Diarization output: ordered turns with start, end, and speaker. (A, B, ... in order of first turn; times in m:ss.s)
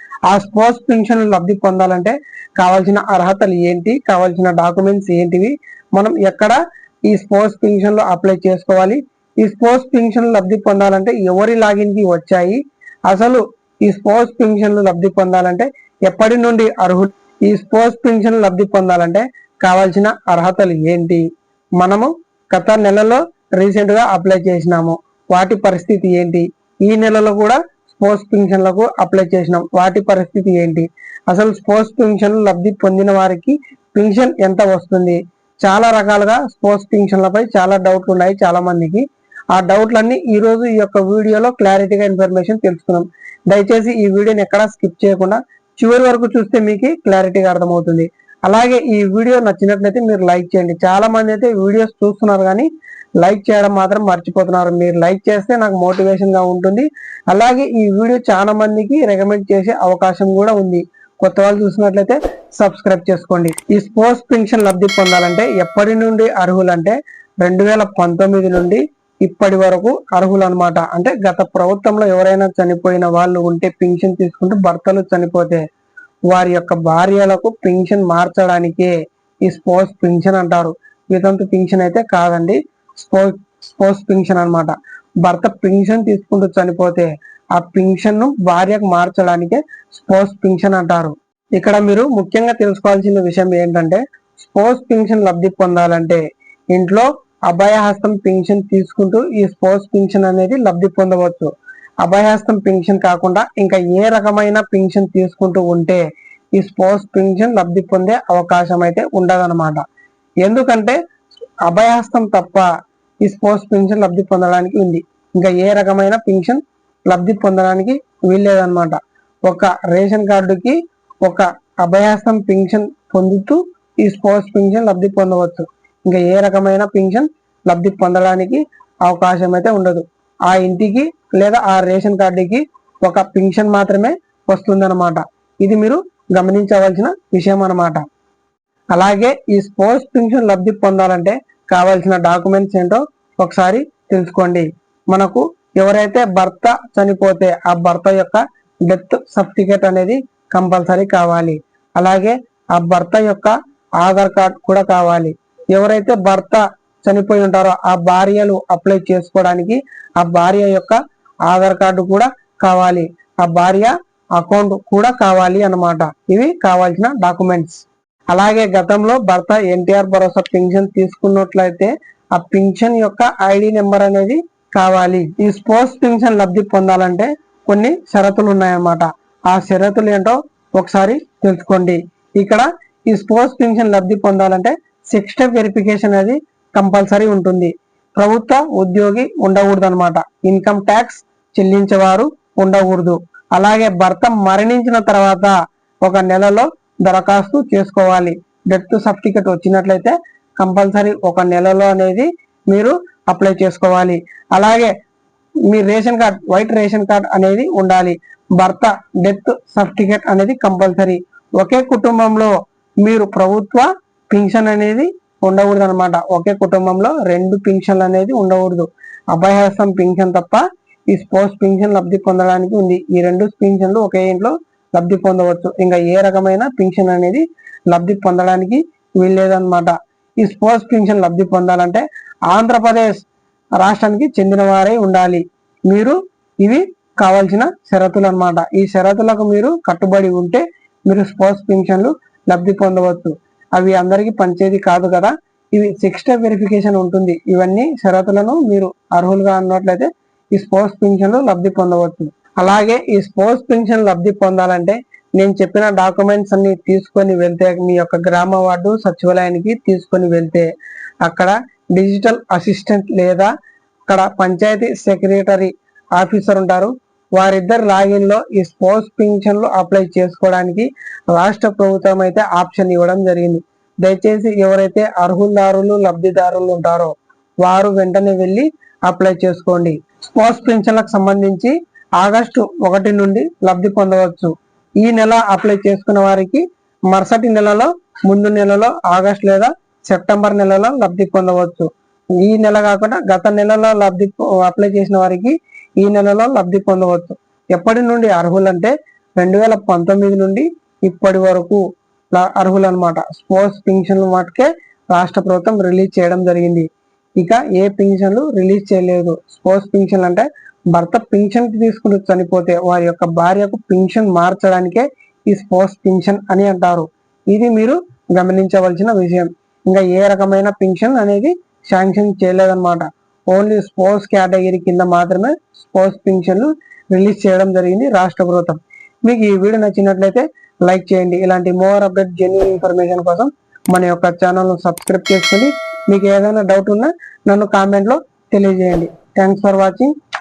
0:00.3-0:06.6 A
0:07.1-0:12.6 A
0:13.1-0:21.2 A
0:21.8-0:52.7 A
0:53.2-1:15.6 A
1:16.3-1:18.9 A
1:19.4-1:41.5 A
1:42.0-1:46.0 A
1:46.6-1:49.8 A
1:50.4-1:51.0 A
1:51.6-1:52.6 A
1:53.2-2:18.0 A
2:18.9-2:41.0 A
2:41.5-3:15.5 A
3:16.0-3:24.9 A
3:25.7-3:53.2 A
3:53.8-4:20.7 A
4:21.2-4:23.5 A
4:24.1-4:37.1 A
4:37.6-4:51.9 A
4:52.4-5:01.8 A
5:02.3-5:06.9 A
5:07.4-5:40.1 A